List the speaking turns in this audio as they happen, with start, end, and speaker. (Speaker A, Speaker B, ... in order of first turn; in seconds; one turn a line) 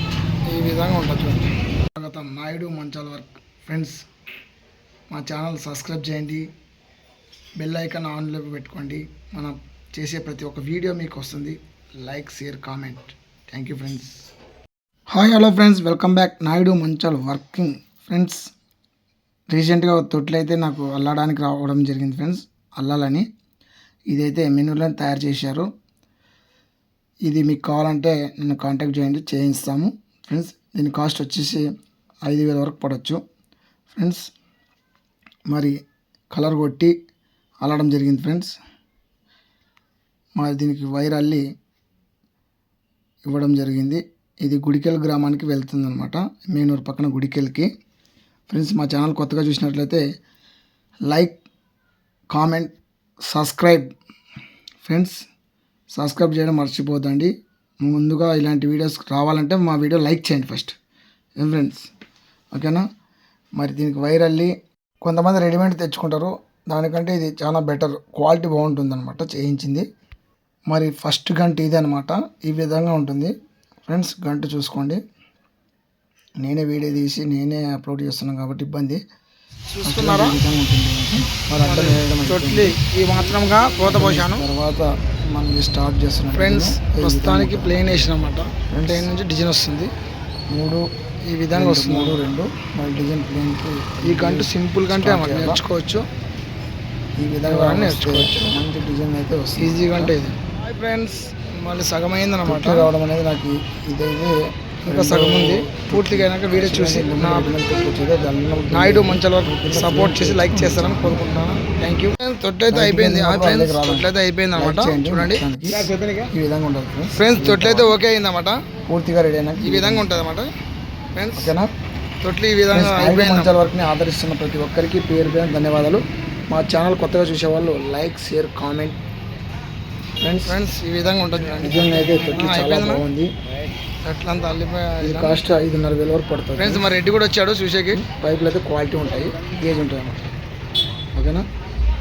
Speaker A: 0.5-1.5
Speaker B: 1.9-4.0
Speaker B: 5.1-6.5
Speaker B: 7.6-14.3
Speaker B: 15.1-18.5
Speaker B: 19.5-23.2
Speaker B: 24.1-25.7
Speaker B: 27.2-31.6
Speaker B: 32.2-33.2
Speaker B: 33.9-34.3
Speaker B: 35.5-35.7
Speaker B: 36.3-36.9
Speaker B: 37.6-38.5
Speaker B: 40.4-41.4
Speaker B: 43.2-47.7
Speaker B: 48.5-50.0
Speaker B: 51.1-51.4
Speaker B: 52.3-52.8
Speaker B: 53.3-53.9
Speaker B: 54.8-55.2
Speaker B: 55.9-60.8
Speaker B: 61.4-61.9
Speaker B: 62.5-62.9
Speaker B: 63.5-69.8
Speaker B: 70.7-73.3
Speaker B: 73.8-75.0
Speaker B: 76.4-79.0
Speaker A: 79.7-80.4
Speaker B: 79.8-82.7
Speaker A: 81.6-84.5
Speaker B: 83.8-88.1
Speaker A: 86.3-89.9
Speaker B: 88.7-89.1
Speaker B: 90.5-90.8
Speaker A: 91.3-92.2
Speaker B: 91.5-95.6
Speaker A: 94.0-96.0
Speaker B: 97.2-100.1
Speaker A: 97.4-98.5
Speaker A: 99.6-102.9
Speaker B: 102.5-111.2
Speaker A: 104.9-107.5
Speaker A: 108.7-115.4
Speaker B: 112.7-117.9
Speaker A: 117.2-118.6
Speaker B: 118.8-120.1
Speaker A: 119.6-120.5
Speaker A: 121.1-121.5
Speaker B: 121.4-121.7
Speaker A: 122.2-123.5
Speaker B: 122.7-129.0
Speaker B: 130.2-130.5
Speaker A: 130.5-133.0
Speaker B: 131.6-133.3
Speaker A: 134.0-135.4
Speaker B: 135.0-137.0
Speaker A: 136.6-138.0
Speaker B: 137.9-140.3
Speaker B: 141.1-141.4